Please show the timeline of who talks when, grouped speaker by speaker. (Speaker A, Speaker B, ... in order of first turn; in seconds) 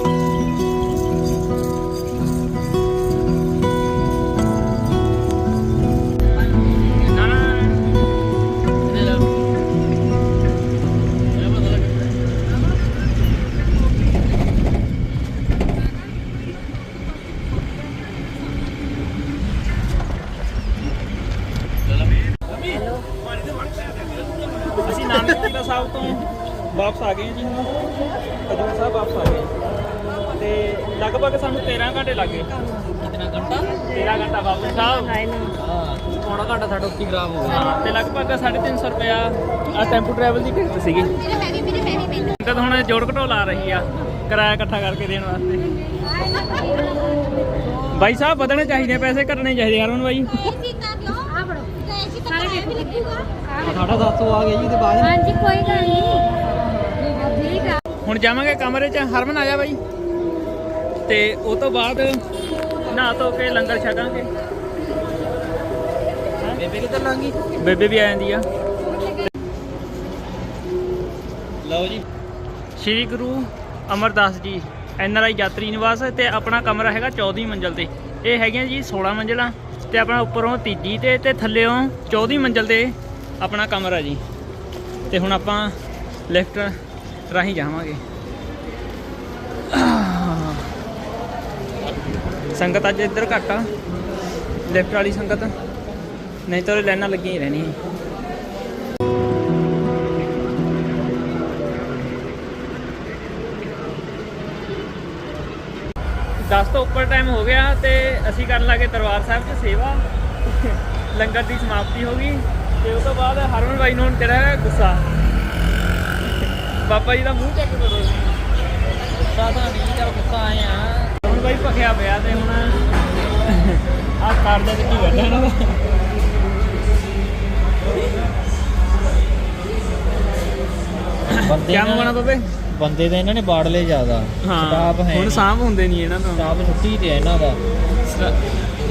Speaker A: 6.9-8.0, 24.8-27.8, 28.5-29.5, 30.3-32.5, 33.9-35.2, 37.4-45.8, 47.9-50.4, 58.0-59.8, 61.1-62.2, 62.9-64.3, 67.6-68.4, 72.8-84.2, 85.1-85.8, 86.3-86.8, 87.3-88.0, 89.7-90.7, 92.5-93.7, 94.7-95.5, 96.5-97.8, 106.4-115.2, 116.4-118.3, 121.2-122.8, 123.4-125.8, 131.3-132.5, 134.4-136.5, 138.1-138.3
Speaker B: 32.8-33.9, 35.6-37.9, 53.6-55.2, 66.5-67.4, 71.6-72.0, 119.0-121.2, 131.4-132.2, 132.7-135.5, 136.3-137.6
Speaker C: 35.2-35.5, 46.4-47.0, 50.9-53.8, 55.2-57.8